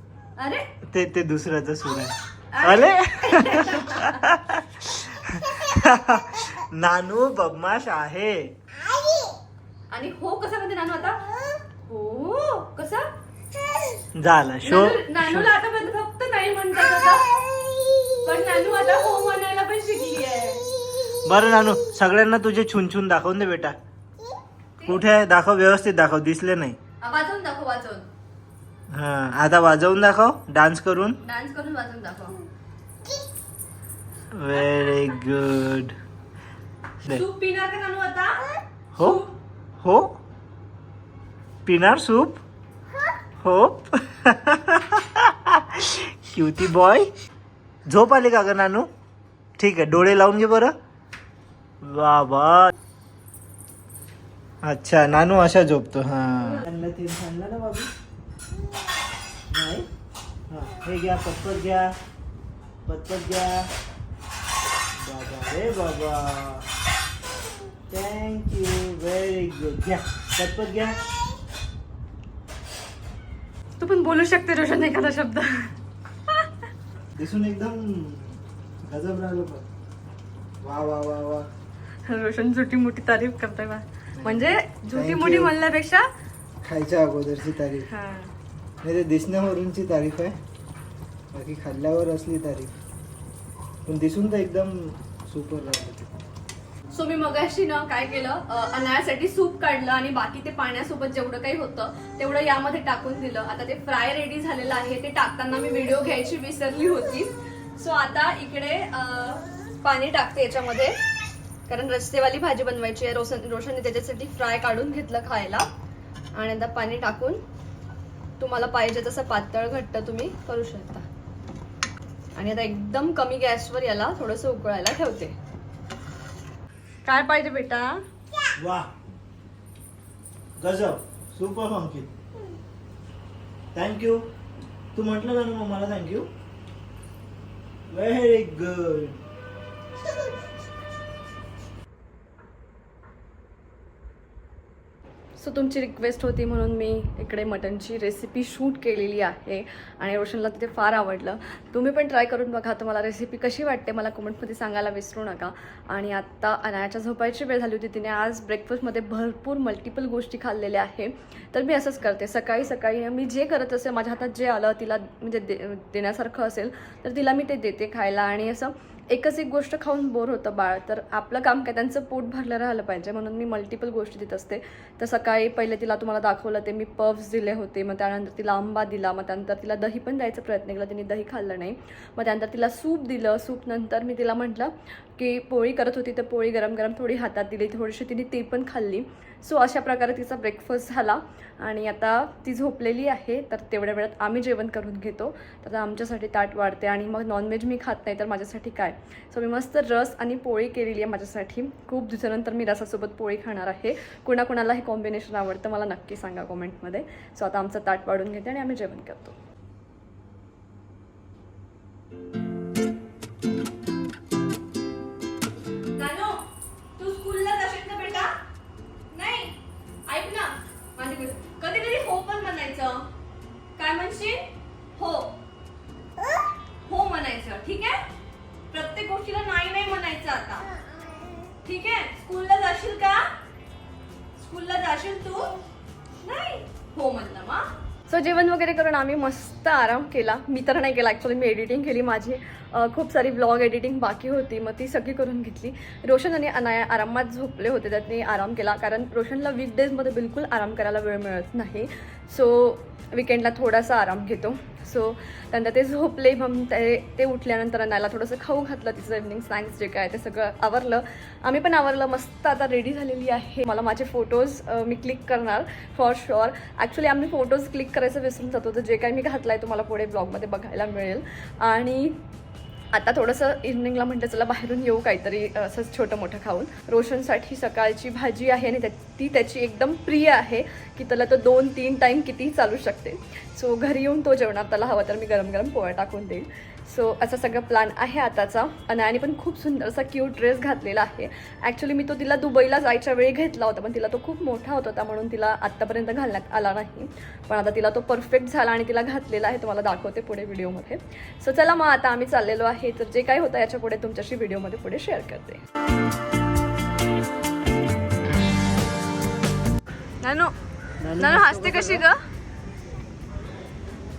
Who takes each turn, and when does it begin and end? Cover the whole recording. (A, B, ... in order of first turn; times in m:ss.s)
0:00.4-0:00.6 A
0:00.9-0:08.5 B
0:02.5-0:04.2 A
0:09.9-0:11.2 A
0:11.8-0:13.0 A
0:14.2-0:15.5 B
0:14.6-0:17.4 A
0:18.1-0:20.7 A
0:21.2-0:23.8 B
0:24.8-0:26.8 B
0:27.0-0:28.1 A
0:28.9-0:31.2 B
0:31.2-0:32.4 A
0:34.3-0:35.9 B
0:37.1-0:38.4 A
0:39.0-0:39.3 A
0:39.8-0:40.1 B
0:41.6-0:42.4 B
0:43.4-0:47.1 B
0:47.9-0:48.9 B
0:49.6-0:50.7 B
0:51.8-0:52.7 B
0:54.6-0:57.9 B
0:56.4-0:56.6 A
0:59.5-0:59.9 B
1:00.5-1:01.9 B
1:02.8-1:03.6 B
1:05.0-1:06.7 B
1:07.9-1:11.0 B
1:13.8-1:15.7 A
1:17.2-1:19.6 B
1:20.6-1:21.5 B
1:22.1-1:26.1 A
1:24.2-1:25.5 B
1:26.6-1:27.9 B
1:27.9-1:28.3 A
1:28.8-1:30.4 B
1:31.3-1:32.8 B
1:33.9-1:36.1 B
1:36.9-1:51.0 A
1:51.7-1:55.7 A
1:56.3-1:57.4 A
1:58.4-2:01.0 A
2:02.4-2:05.3 A
2:07.0-2:08.0 A
2:08.6-2:08.9 B
2:10.6-2:12.1 B
2:13.8-2:14.3 B
2:14.9-2:16.3 B
2:17.9-2:19.2 B
2:25.4-3:29.4 A
3:36.0-3:36.4 A
3:37.0-3:38.3 A
3:39.1-3:43.0 A
3:43.8-3:44.4 A
3:45.0-3:45.4 A
3:46.9-3:48.0 A
3:48.7-3:50.7 A
3:51.6-3:53.2 A
3:54.4-3:55.5 A
3:56.2-4:32.2 A
4:32.9-5:05.6 A
5:10.2-5:10.5 A
5:11.0-5:12.1 B
5:11.2-5:12.2 A